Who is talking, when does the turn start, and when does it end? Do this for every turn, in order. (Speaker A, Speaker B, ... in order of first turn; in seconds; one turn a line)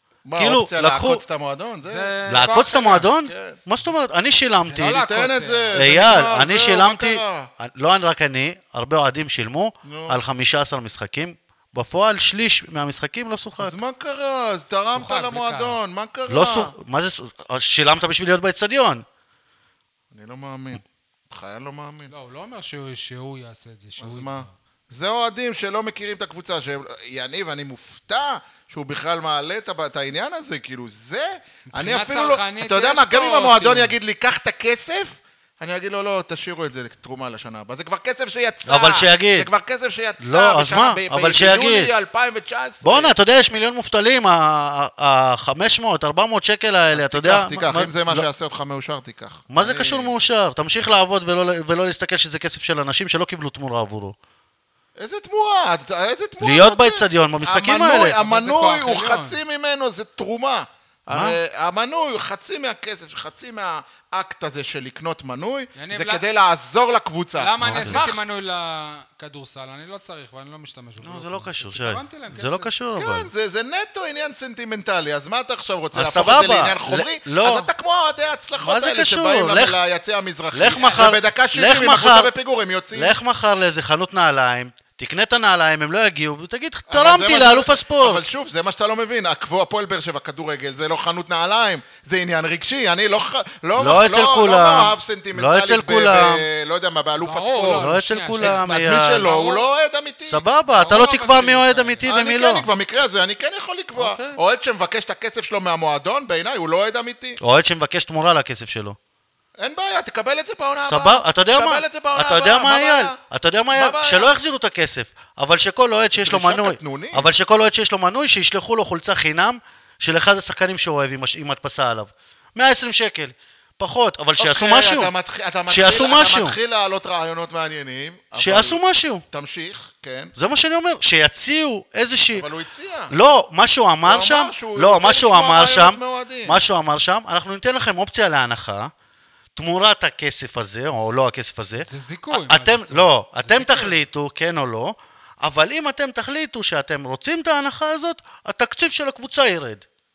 Speaker A: 0.2-3.6
Speaker B: 0.4-1.2
Speaker C: 1.8-3.1
Speaker B: 2.3-5.0
Speaker C: 4.6-5.8
Speaker A: 4.9-7.5
Speaker B: 5.8-13.8
Speaker A: 9.8-10.2
Speaker A: 13.6-16.7
Speaker C: 14.9-15.8
Speaker B: 16.3-19.1
Speaker A: 20.1-22.1
Speaker C: 22.1-24.5
Speaker A: 24.0-43.1
Speaker C: 31.7-33.9
Speaker B: 38.7-39.5
Speaker B: 40.2-41.9
Speaker B: 42.8-48.3
Speaker A: 46.9-50.1
Speaker B: 49.5-54.2
Speaker A: 55.0-68.2
Speaker B: 56.4-58.2
Speaker C: 58.1-59.4
Speaker B: 61.1-61.4
Speaker C: 65.8-66.2
Speaker C: 67.4-72.7
Speaker B: 67.6-68.1
Speaker B: 71.0-73.3
Speaker A: 73.0-83.2
Speaker B: 75.9-77.7
Speaker B: 78.6-79.8
Speaker B: 80.5-82.3
Speaker C: 80.7-81.1
Speaker B: 82.9-88.2
Speaker A: 86.9-100.4
Speaker B: 93.8-96.5
Speaker C: 97.2-98.7
Speaker B: 97.7-99.5
Speaker B: 100.3-102.7
Speaker C: 100.7-102.1
Speaker A: 102.0-107.4
Speaker B: 104.0-104.4
Speaker B: 107.4-109.0
Speaker A: 109.6-113.2
Speaker B: 110.9-125.1
Speaker A: 113.7-114.3
Speaker A: 116.2-117.3
Speaker A: 124.4-128.8
Speaker B: 125.7-126.6
Speaker B: 128.4-129.2
Speaker A: 129.3-130.3
Speaker B: 130.4-132.5
Speaker A: 132.3-133.1
Speaker B: 133.1-138.9
Speaker A: 134.0-136.6
Speaker B: 139.6-149.9
Speaker C: 141.8-144.0